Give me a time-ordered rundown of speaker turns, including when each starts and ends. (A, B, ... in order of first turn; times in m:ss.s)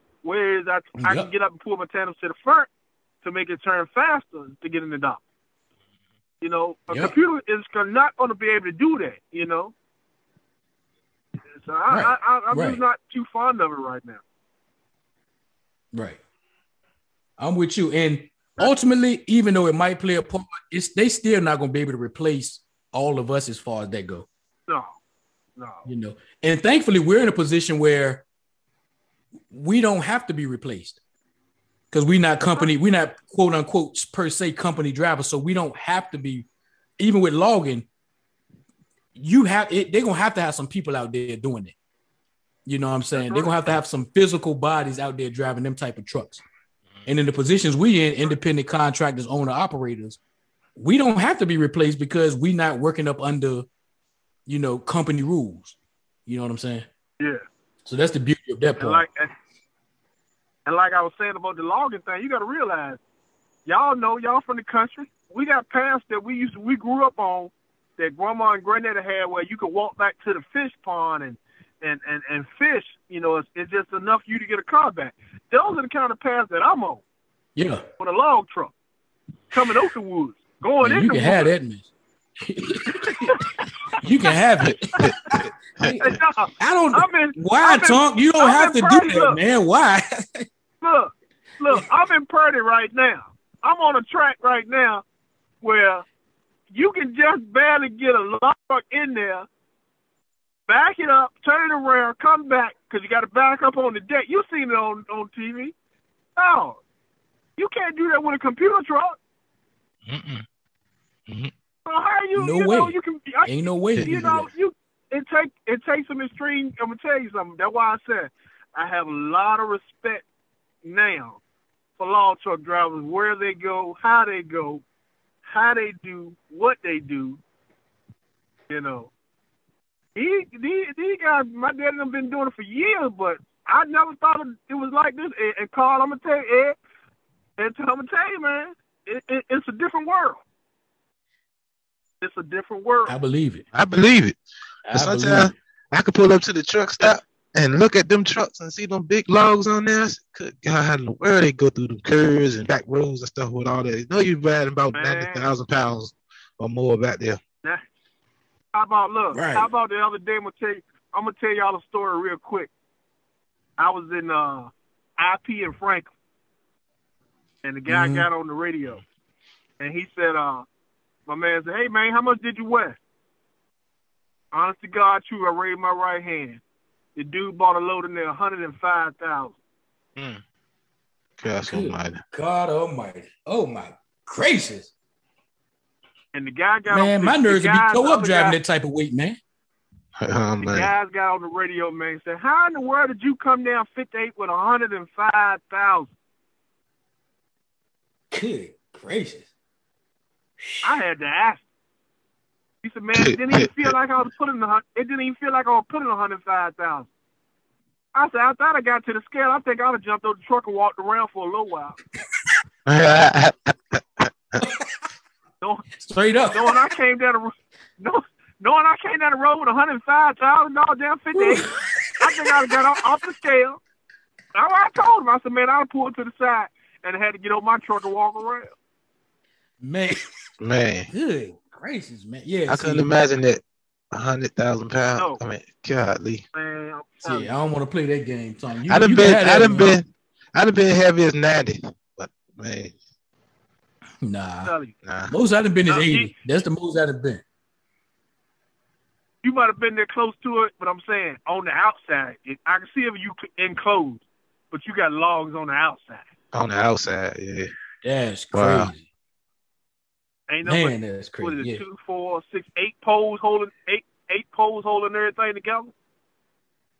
0:00.2-0:02.7 A
0:01.0-0:01.3 B
0:03.2-0:05.2 A
0:06.4-0:09.7 A
0:11.5-0:14.2 A
0:11.9-0:12.8 B
0:15.9-0:16.2 B
0:17.4-0:24.3 B
0:24.7-0:25.0 A
0:25.6-0:25.9 A
0:25.8-0:28.2 B
0:29.5-0:31.0 B
0:31.9-0:36.4 B
0:37.0-0:37.9 B
0:39.2-0:41.8 B
0:42.6-0:46.4 B
0:43.1-0:43.5 A
0:47.0-0:50.2 B
0:50.8-0:53.7 B
0:54.5-0:56.9 B
0:57.8-0:59.0 B
0:58.8-0:59.3 A
1:00.6-1:03.0 A
1:03.6-1:17.0 A
1:17.6-1:17.8 B
1:18.0-1:18.7 A
1:19.5-1:21.5 A
1:20.8-1:23.4 B
1:24.0-1:30.4 B
1:24.6-1:26.1 C
1:25.8-1:29.4 A
1:30.8-1:35.0 A
1:35.6-1:36.0 A
1:36.7-1:39.5 A
1:40.7-1:45.7 A
1:46.4-1:46.8 A
1:47.6-1:49.2 A
1:50.0-1:50.4 C
1:51.8-1:53.5 A
1:52.3-1:54.5 B
1:53.9-1:54.2 C
1:54.0-2:00.2 A
2:00.8-2:01.4 A
2:02.0-2:04.8 A
2:05.4-2:07.4 A
2:08.7-2:09.1 A
2:10.1-2:16.8 A
2:17.6-2:20.4 A
2:22.2-2:23.1 A
2:23.1-2:23.6 B
2:23.7-2:24.4 C
2:24.8-2:25.5 B
2:24.9-2:37.4 C
2:34.9-2:35.5 A
2:38.7-2:42.7 A
2:39.3-2:39.7 B
2:43.8-2:46.1 A
2:47.6-2:49.0 A
2:47.9-2:48.3 B
2:49.8-2:50.6 A
2:51.3-2:53.0 A
2:54.5-2:56.6 A
2:57.2-2:59.6 A
3:00.2-3:00.4 C
3:01.4-3:02.2 C
3:01.6-3:04.9 B
3:06.3-3:08.6 A
3:06.9-3:09.4 B
3:10.2-3:10.9 C
3:10.6-3:16.1 A
3:18.3-3:19.5 B
3:20.6-3:21.0 B
3:20.8-3:21.6 A
3:22.8-3:27.1 A
3:23.1-3:23.9 C
3:28.1-3:32.0 A
3:32.8-3:34.6 C
3:34.6-3:34.8 B
3:35.6-3:35.8 A
3:36.0-3:36.8 B
3:36.5-3:43.8 A
3:41.3-3:42.8 B
3:44.5-3:48.7 A
3:49.8-3:50.2 B
3:50.6-3:51.1 C
3:51.1-3:53.1 B
3:52.7-3:56.4 C
3:56.5-3:57.5 A
3:57.2-3:59.9 B
3:58.9-4:03.0 C
4:04.2-4:04.7 B
4:04.6-4:04.9 A
4:05.0-4:05.3 C
4:05.3-4:07.4 B
4:05.9-4:06.3 A
4:09.4-4:16.3 A
4:16.5-4:17.7 C
4:18.0-4:19.0 B
4:18.5-4:18.9 C
4:20.5-4:25.9 A
4:20.6-4:21.8 B